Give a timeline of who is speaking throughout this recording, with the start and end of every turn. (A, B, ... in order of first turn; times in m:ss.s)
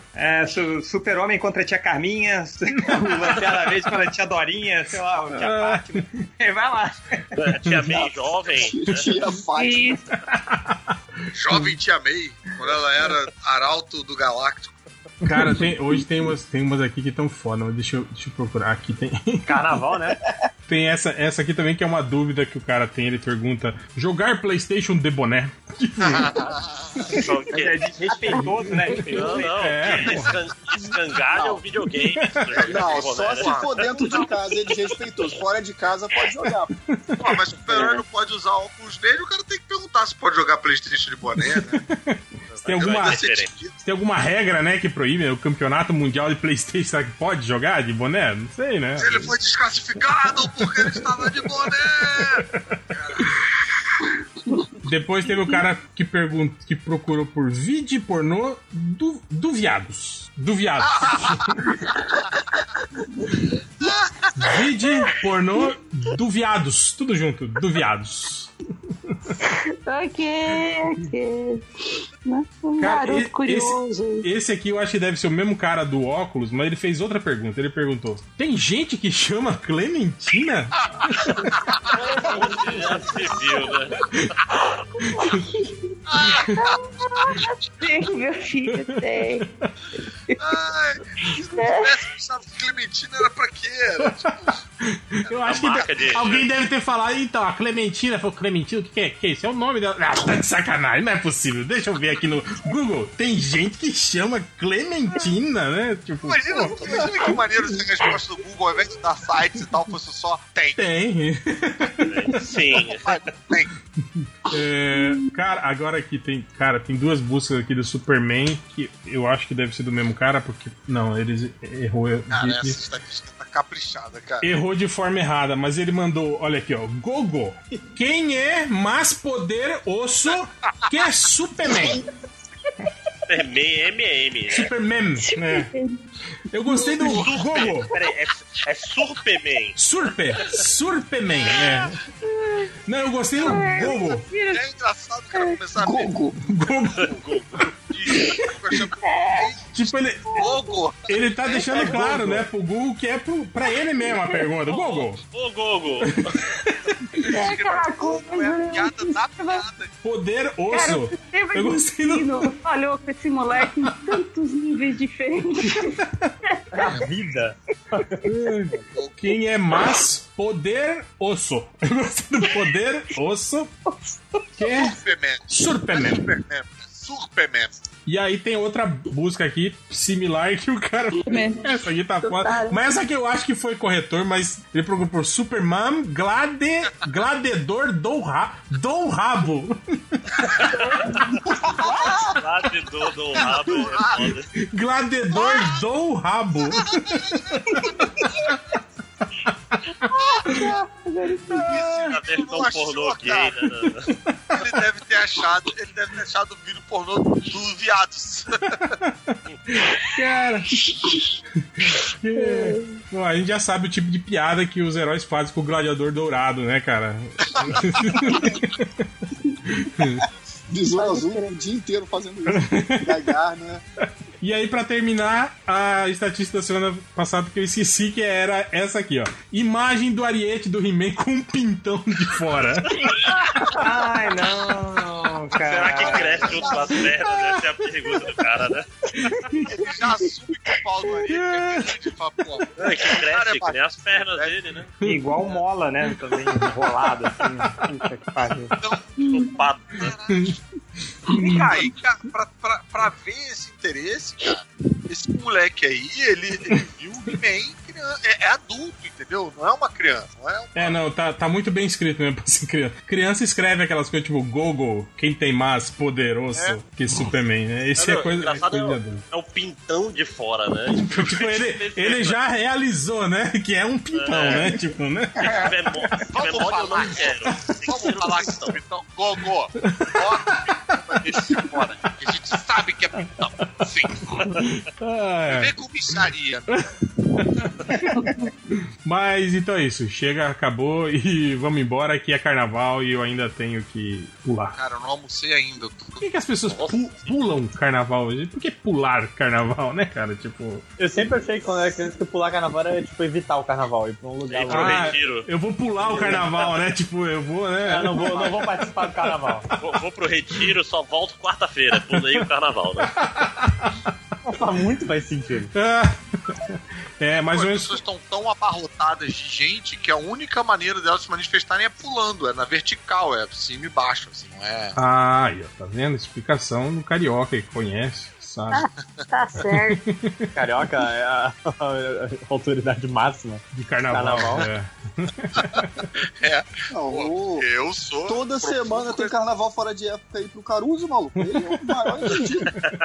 0:00.2-0:07.3 A
0:05.3-0:06.0 B
0:07.3-0:09.2 C
0:07.9-0:10.1 D
0:09.5-0:10.0 E
0:10.3-0:10.8 B
0:11.3-0:14.8 F
0:15.2-0:19.7 B
0:19.4-0:20.2 G
0:20.7-0:26.5 B
0:26.0-0:27.0 F
0:27.0-0:27.8 C
0:27.5-0:29.6 A
0:28.9-0:30.4 B
0:29.1-0:34.2 C
0:30.0-0:30.4 F
0:31.3-0:31.6 F
0:32.1-0:32.6 B
0:32.6-0:34.2 F
0:32.7-0:36.7 D
0:36.9-0:37.2 B
0:37.2-0:41.8 F
0:37.7-0:38.0 C
0:41.4-0:43.2 B
0:42.5-0:43.7 F
0:42.5-0:43.5 C
0:43.8-0:49.3 B
0:49.0-0:53.3 F
0:50.6-0:52.7 B
0:54.8-1:01.7 B
1:00.8-1:01.6 F
1:01.8-1:02.2 E
1:03.8-1:04.3 F
1:04.4-1:08.5 B
1:09.4-1:14.3 E
1:12.8-1:21.6 B
1:22.0-1:23.2 G
1:22.2-1:24.1 C
1:24.6-1:29.4 E
1:25.1-1:25.4 B
1:26.1-1:27.3 F
1:28.7-1:29.7 B
1:30.3-1:30.5 E
1:30.4-1:34.6 F
1:31.2-1:32.0 E
1:34.0-1:34.3 B
1:34.8-1:47.1 B
1:35.2-1:36.4 F
1:35.4-1:36.5 C
1:46.2-1:50.8 F
1:50.8-1:52.4 B
1:52.0-1:53.3 C
1:52.8-1:53.7 F
1:54.4-2:02.8 B
1:54.9-1:55.2 E
2:02.3-2:04.4 F
2:04.4-2:12.0 B
2:13.3-2:14.7 C
2:14.5-2:15.7 B
2:15.2-2:16.0 E
2:16.5-2:17.9 B
2:16.8-2:18.1 F
2:17.0-2:19.8 C
2:19.8-2:22.0 B
2:22.2-2:22.7 E
2:22.8-2:24.2 B
2:23.4-2:24.6 E
2:24.5-2:26.2 F
2:25.8-2:26.4 D
2:26.4-2:27.1 B
2:26.7-2:29.6 F
2:26.9-2:27.6 C
2:29.0-2:29.5 E
2:29.7-2:30.4 B
2:30.3-2:30.7 E
2:30.3-2:32.4 F
2:31.1-2:35.2 B
2:34.6-2:36.3 C
2:36.1-2:37.3 B
2:37.2-2:39.9 F
2:37.3-2:39.6 E
2:40.0-2:42.5 B
2:40.7-2:46.8 E
2:45.7-2:46.3 B
2:46.7-2:48.3 G
2:48.2-2:53.7 B
2:48.9-2:49.4 F
2:53.9-2:54.4 E
2:54.6-2:56.3 B
2:54.6-2:57.8 F
2:58.0-3:10.3 B
3:01.2-3:02.8 E
3:10.7-3:11.2 C
3:11.1-3:12.2 E
3:11.4-3:12.4 F
3:12.2-3:14.5 C
3:13.3-3:14.3 F
3:14.6-3:17.9 B
3:16.8-3:17.4 F
3:20.1-3:21.8 E
3:21.5-3:23.5 F
3:22.0-3:24.1 C
3:24.3-3:24.6 B
3:24.6-3:28.9 F
3:29.0-3:31.0 B
3:30.8-3:31.2 E
3:31.8-3:38.8 B
3:32.4-3:32.9 E
3:37.5-3:37.8 F
3:39.7-3:40.3 B
3:40.7-3:43.8 D
3:41.0-3:41.5 E
3:42.5-3:43.2 B
3:44.4-3:53.1 B
3:53.6-3:56.8 A
3:55.6-3:58.9 C
3:56.0-3:57.1 F
3:59.2-3:59.7 B
3:59.6-4:04.6 F
4:01.3-4:02.0 B
4:02.8-4:04.9 C
4:05.0-4:05.3 B
4:05.0-4:08.7 A
4:08.8-4:10.6 F
4:09.2-4:09.5 E
4:09.2-4:10.1 C
4:10.3-4:10.5 B
4:11.3-4:11.9 B
4:11.3-4:21.0 F
4:20.8-4:29.2 B
4:28.0-4:32.4 C
4:30.9-4:35.7 B
4:34.1-4:34.8 C
4:34.3-4:34.7 F
4:35.4-4:38.8 C
4:36.3-4:44.4 F
4:39.8-4:40.8 B
4:41.3-4:41.6 B
4:44.5-4:45.7 B
4:45.5-4:46.9 F
4:46.7-4:48.3 B
4:49.0-4:54.8 B
4:54.7-4:56.2 F
4:56.2-5:00.8 B
4:56.7-4:57.0 C
5:01.0-5:05.2 G
5:04.5-5:05.5 C
5:04.7-5:09.3 B
5:06.0-5:06.7 G
5:07.8-5:09.7 G
5:09.7-5:13.1 C
5:13.1-5:14.0 B
5:14.4-5:15.7 G
5:15.7-5:18.0 B
5:17.5-5:24.9 F
5:24.9-5:28.8 B
5:28.7-5:30.0 E
5:30.0-5:30.5 B
5:30.6-5:34.7 G
5:33.7-5:35.9 B
5:36.4-5:39.3 F
5:36.9-5:37.7 D
5:38.2-5:42.9 D
5:41.4-5:42.4 B